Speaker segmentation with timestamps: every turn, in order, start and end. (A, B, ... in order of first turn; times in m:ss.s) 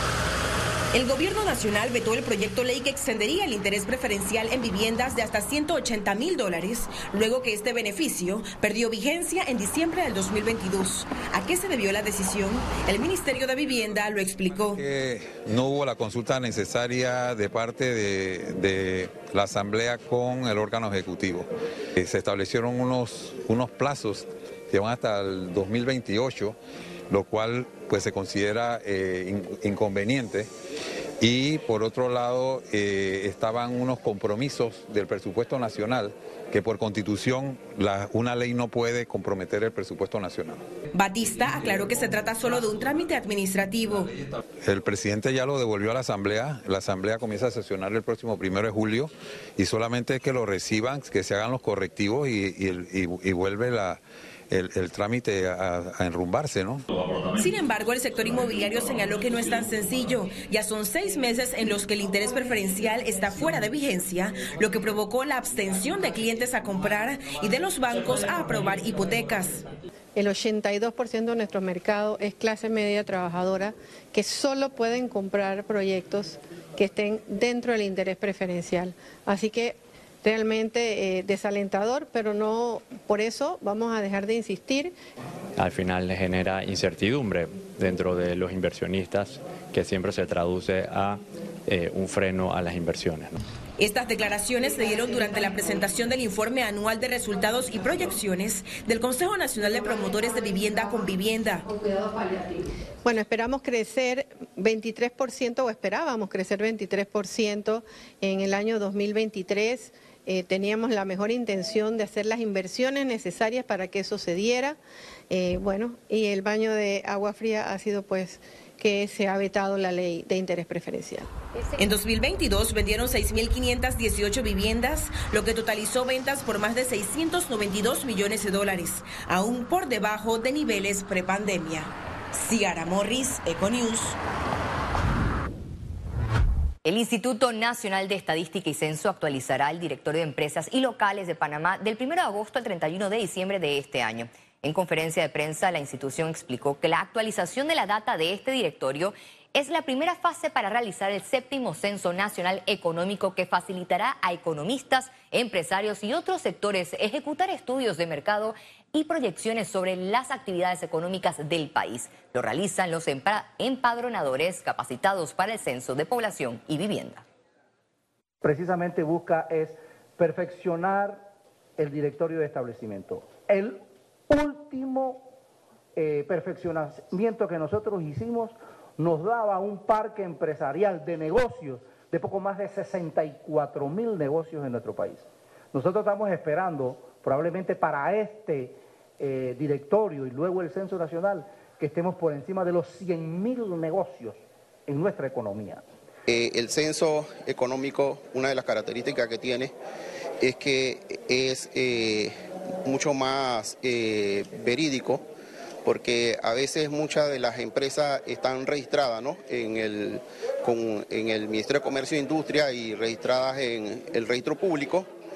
0:00.9-0:14.8 A
0:14.7-0:26.6 B
0:27.1-0:30.5 B
0:31.2-0:40.6 B
0:40.9-0:44.1 A
0:44.6-0:56.8 B
0:57.4-1:09.6 A
1:10.2-1:24.9 C
1:25.6-1:33.4 D
1:33.8-1:41.6 A
1:40.1-1:40.6 C
1:41.7-1:54.8 C
1:55.3-2:01.3 C
2:01.8-2:14.2 A
2:16.8-2:47.2 E
2:48.4-2:51.1 F
2:51.8-2:53.7 F
2:54.3-2:55.1 F
2:56.0-3:05.2 F
3:05.7-3:08.7 F
3:09.2-3:14.3 F
3:14.9-3:15.8 F
3:16.3-3:19.7 G
3:20.4-3:22.3 G
3:22.8-3:25.2 G
3:25.8-3:35.1 G